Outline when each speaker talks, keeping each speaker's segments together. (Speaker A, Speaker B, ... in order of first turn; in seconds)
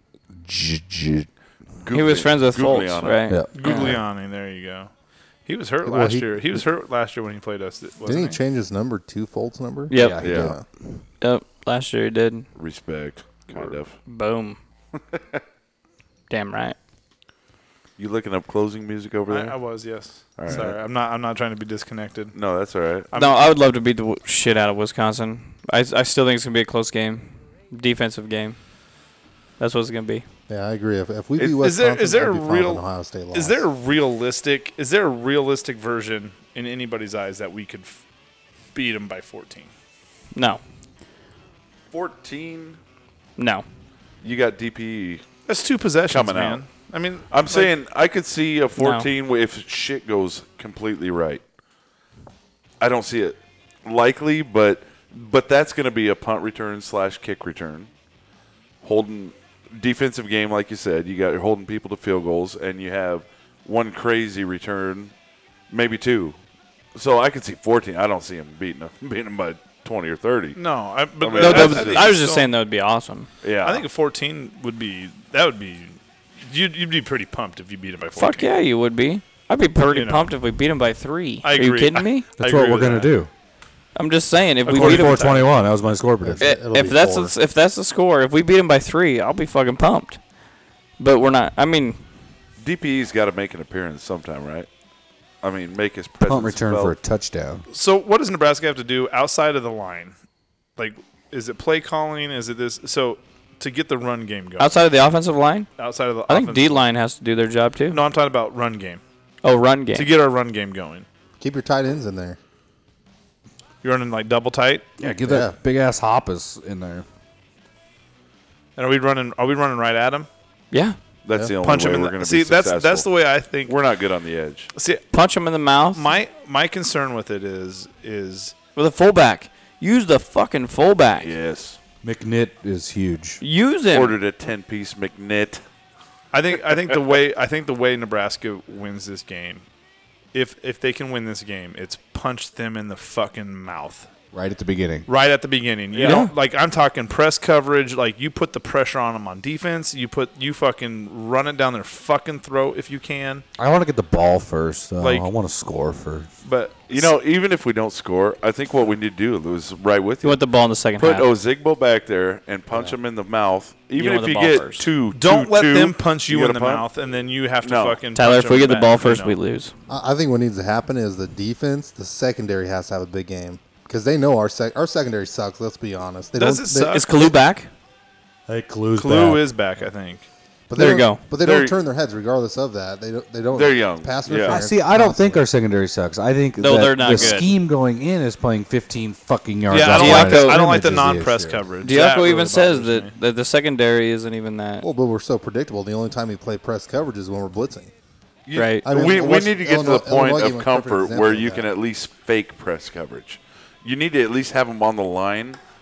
Speaker A: 0.3-1.3, 9.9-10.6, 82.4-83.3, 84.7-86.5, 96.2-97.6, 115.0-117.1, 132.0-133.4, 144.3-145.1, 153.6-156.3, 178.5-179.4, 184.4-191.6
Speaker B: 1.8-3.3, 10.2-10.5, 12.6-14.0, 18.0-19.6, 20.4-20.8, 22.3-23.1, 41.9-42.8, 44.2-45.2, 46.1-46.7, 47.3-51.4, 52.8-57.9, 58.8-65.1, 65.7-66.4, 67.0-70.6, 71.2-72.1, 73.4-73.8, 92.6-94.7, 95.4-96.9, 121.2-123.1, 123.7-124.7, 131.2-131.8, 133.9-135.6, 156.9-160.4, 161.0-166.9, 167.6-168.0, 181.4-181.8, 183.5-184.6, 198.5-205.6
Speaker C: 1.9-4.0, 9.9-10.2, 11.2-12.5, 14.1-14.6, 16.3-16.8, 23.1-28.6, 29.6-30.2, 40.4-40.6, 43.4-43.6, 48.8-49.1, 71.3-73.3, 78.2-82.3, 84.0-85.3, 86.4-90.2, 91.0-92.0, 104.6-105.7, 106.3-108.0, 109.4-110.1, 120.7-121.0, 125.1-126.1, 128.8-131.3, 133.4-134.2, 146.0-146.3, 160.2-161.3, 164.0-164.9, 168.2-169.7, 176.9-177.7, 180.7-181.2, 186.6-187.5, 189.9-190.6, 191.8-194.9, 198.6-198.8
Speaker D: 3.5-4.9, 5.5-8.4, 19.3-22.4, 23.1-23.5, 31.4-38.0, 38.8-39.7, 45.5-47.7, 70.6-72.5, 73.6-78.5, 79.9-80.3, 81.4-83.1, 84.7-85.5, 97.7-100.1, 100.8-104.8, 105.8-106.8, 107.9-109.0, 109.9-111.1, 113.8-114.8, 118.8-120.3, 121.6-123.8, 124.8-125.0, 125.9-128.6, 136.3-139.6, 140.3-144.1, 145.1-153.4, 155.0-155.3, 156.4-157.1, 165.1-169.3, 176.3-177.3, 179.0-180.2, 189.7-193.1
Speaker E: 5.8-6.6, 8.1-10.6, 30.5-33.6, 86.2-87.3, 111.4-112.4, 115.3-115.5, 162.7-163.0, 169.9-177.0, 180.7-185.5, 194.8-197.9, 198.8-201.7